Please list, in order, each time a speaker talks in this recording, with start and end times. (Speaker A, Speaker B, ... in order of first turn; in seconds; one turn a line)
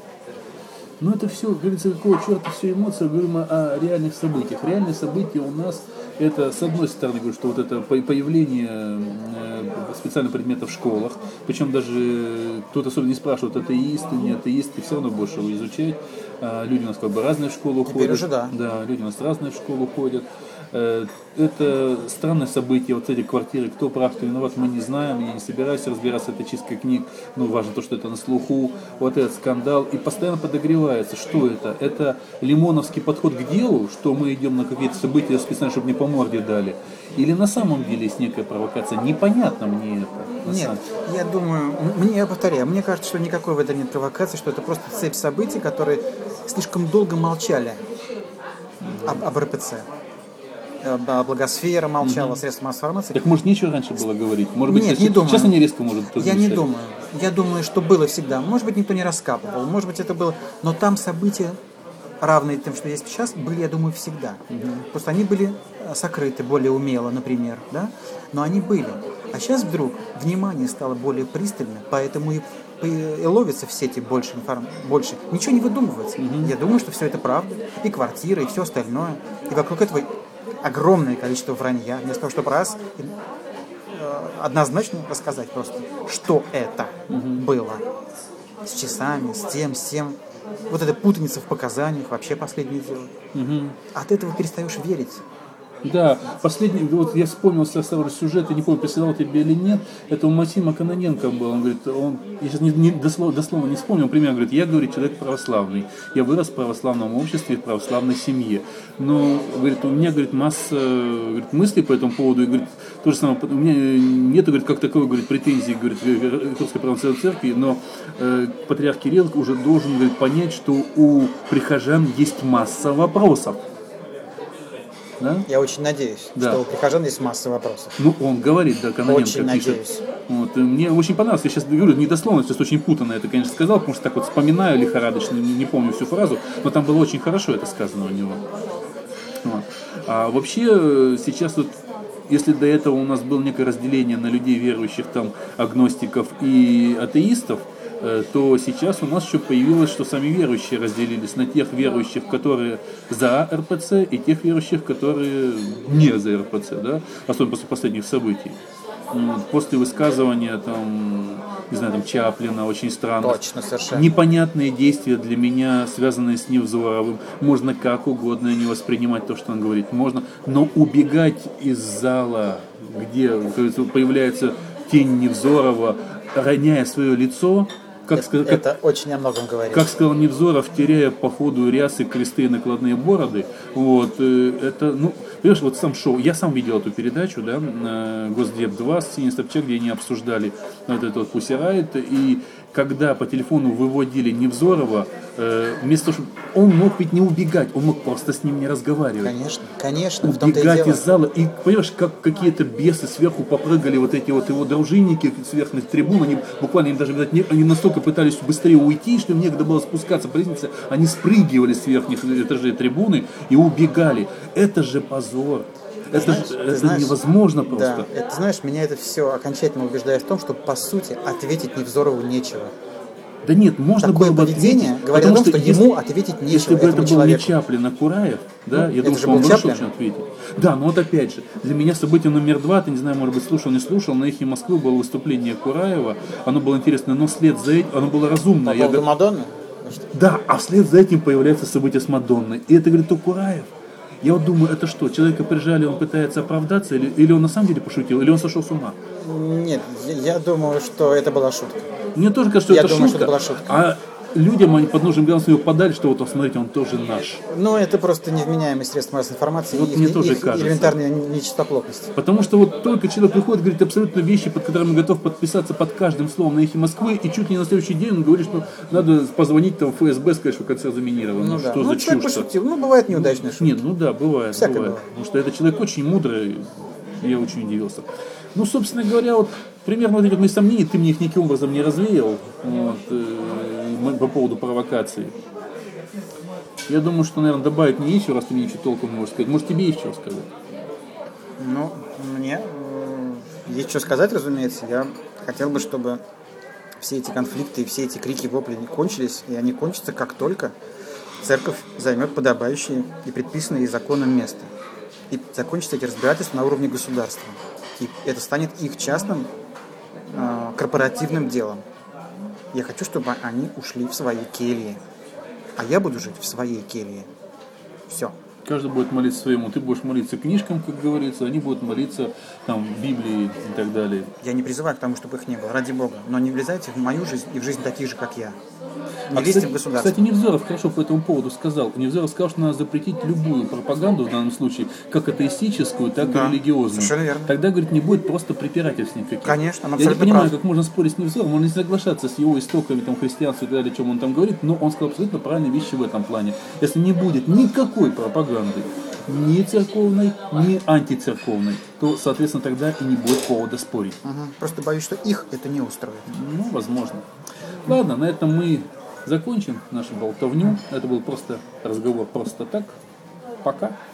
Speaker A: 1.0-40.8
Speaker B: 17.9-18.6
Speaker B: 40.4-47.8
Speaker A: 48.8-49.2
Speaker B: 49.0-49.9
Speaker B: 50.8-53.2
Speaker A: 52.0-52.4
Speaker A: 53.1-56.6
Speaker B: 54.7-55.6
Speaker B: 56.1-61.6
Speaker B: 62.2-80.1
Speaker A: 64.5-64.8
Speaker A: 76.2-76.5
Speaker B: 80.6-83.1
Speaker B: 83.9-87.8
Speaker A: 87.1-87.4
Speaker B: 88.6-90.2
Speaker B: 90.7-93.1
Speaker A: 93.3-93.8
Speaker B: 93.9-95.2
Speaker A: 95.8-123.6
Speaker A: 125.2-125.5
Speaker B: 125.5-127.9
Speaker A: 126.3-126.6
Speaker A: 128.0-138.4
Speaker B: 129.1-130.0
Speaker A: 139.4-141.8
Speaker A: 142.3-158.6
Speaker A: 159.1-163.4
Speaker B: 163.2-164.1
Speaker A: 163.9-178.6
Speaker B: 178.1-179.9
Speaker A: 179.7-199.3
Speaker B: 199.2-201.0
Speaker A: 200.2-218.1
Speaker B: 216.1-222.7
Speaker A: 223.4-239.0
Speaker B: 224.0-227.6
Speaker B: 228.7-229.9
Speaker B: 238.6-240.1
Speaker A: 240.1-243.7
Speaker A: 244.2-249.0
Speaker B: 249.2-251.9
Speaker A: 252.2-257.4
Speaker B: 252.7-253.8
Speaker B: 257.5-262.1
Speaker A: 259.7-261.0
Speaker A: 262.1-272.5
Speaker B: 271.3-273.9
Speaker A: 273.1-285.3
Speaker B: 274.5-275.0
Speaker A: 286.9-290.5
Speaker B: 291.6-296.2
Speaker B: 297.0-300.7
Speaker B: 301.4-304.7
Speaker B: 305.3-309.5
Speaker B: 310.2-311.8
Speaker B: 312.7-315.0
Speaker B: 315.8-317.3
Speaker B: 318.1-318.3
Speaker A: 318.6-324.3
Speaker B: 324.4-328.6
Speaker A: 329.3-354.2
Speaker B: 329.3-330.2
Speaker B: 336.2-337.5
Speaker B: 339.4-340.5
Speaker B: 354.2-356.3
Speaker A: 356.3-357.3
Speaker A: 357.8-362.9
Speaker A: 363.6-363.9